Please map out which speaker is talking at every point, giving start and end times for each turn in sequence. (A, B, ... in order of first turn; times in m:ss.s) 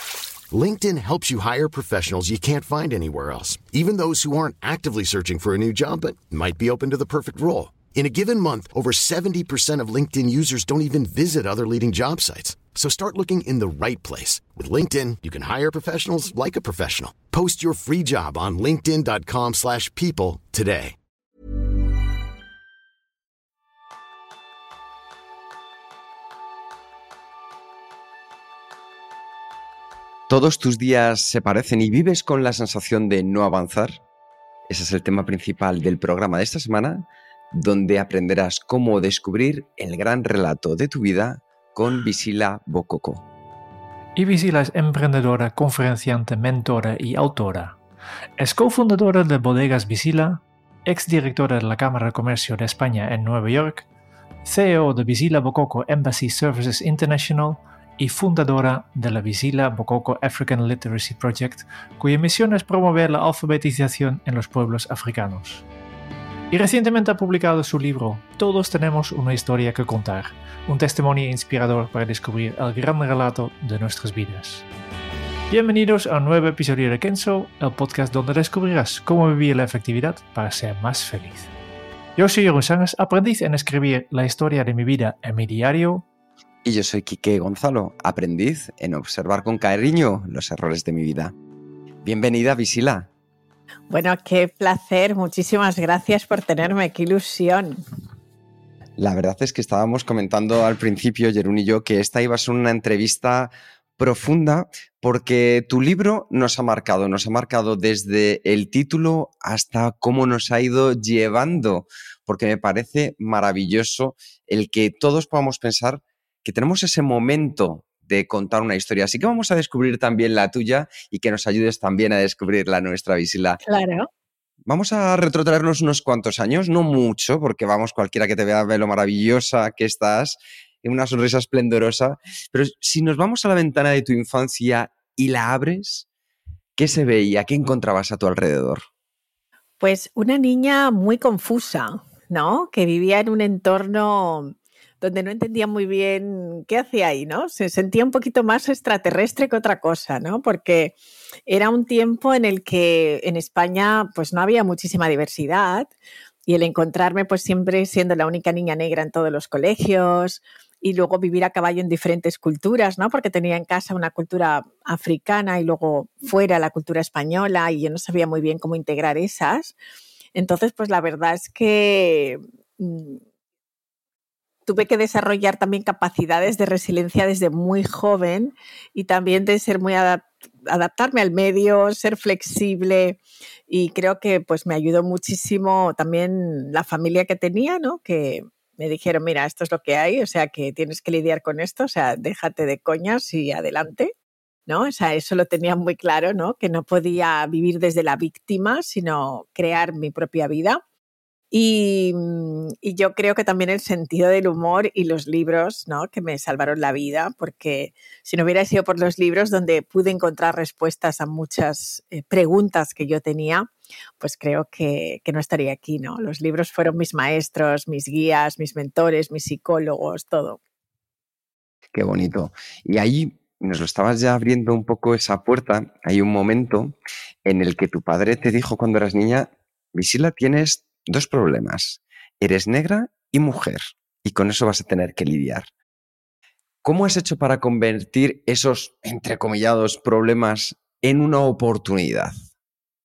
0:00.5-0:21.0 A
0:30.3-0:34.0 B
0:34.7-0:43.2 B
0:44.2-0:47.8 C
0:48.4-0:53.9 C
0:54.4-1:05.6 C
1:06.5-1:14.6 C
1:15.5-1:21.5 C
1:22.2-1:26.0 C
1:26.6-1:31.3 B
1:32.0-1:33.1 B
1:33.9-1:37.8 D
1:39.0-2:03.6 B
2:03.6-2:04.1 D
2:04.7-2:16.1 B
2:16.8-2:18.8 B
2:19.8-2:31.0 D
2:31.5-2:35.9 D
2:36.5-2:49.8 D
2:50.4-2:53.2 D
2:54.7-3:14.1 D
3:14.7-3:20.8 D
3:21.5-3:40.6 D
3:41.9-3:55.7 B
3:56.8-4:02.3 B